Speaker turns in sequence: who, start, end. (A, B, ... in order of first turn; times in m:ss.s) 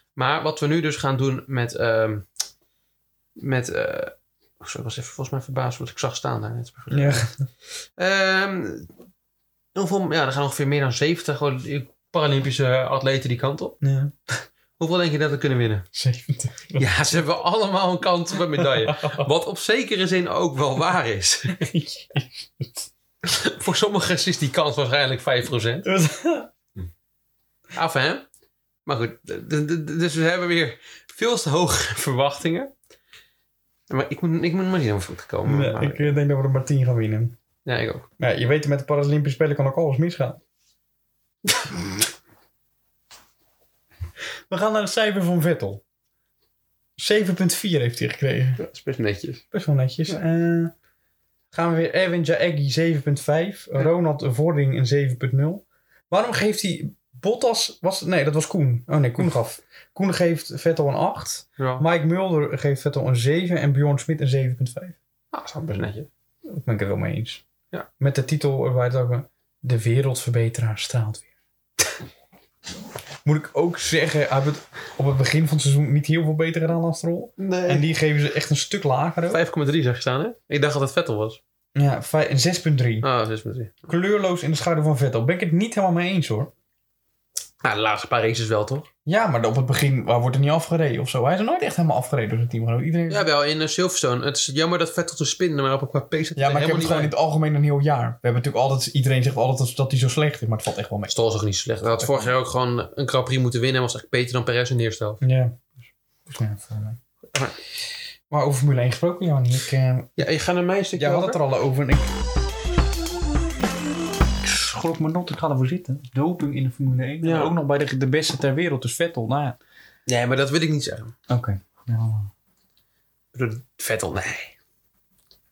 0:00.2-0:02.3 A
0:03.4-0:08.9 A
0:06.9-0:07.5 B
0:09.8-0:13.8 A
0:13.8-0:14.4 B
0:14.8-0:15.8 A
0:15.9-0:16.9 B
0:16.8-0:21.7 A
0:18.6-0:19.3 B
0:21.5-0:22.9 B
0:23.2-0:25.9 A
0:25.8-0:26.5 B
0:27.7-0:28.2 A
0:28.9-0:32.7 A
0:33.9-0:36.2 A
0:35.5-0:37.4 B
0:37.6-0:38.1 A
0:38.2-0:40.4 B
0:41.5-0:41.8 A
0:44.5-0:45.8 B
0:47.0-0:48.6 B
0:48.6-0:49.4 A
0:49.5-0:50.7 B
0:51.5-1:05.0 B
1:01.6-1:01.8 A
1:05.3-1:06.1 A
1:06.5-1:07.4 B
1:08.0-1:11.3 B
1:13.2-1:19.4 B
1:17.4-1:17.9 A
1:19.3-1:21.4 A
1:21.8-1:23.1 B
1:23.0-1:23.8 A
1:23.9-1:26.5 B
1:27.6-1:28.9 A
1:29.1-1:33.3 B
1:33.1-1:37.1 A
1:36.4-1:41.1 B
1:41.1-1:45.2 A
1:41.9-1:42.3 B
1:45.2-1:45.6 B
1:46.3-1:47.0 B
1:48.3-1:50.2 B
1:50.2-1:51.4 A
1:51.0-1:52.1 B
1:54.4-1:59.6 B
1:57.2-1:57.6 A
2:00.1-2:01.1 A
2:01.3-2:02.3 B
2:03.3-2:04.5 A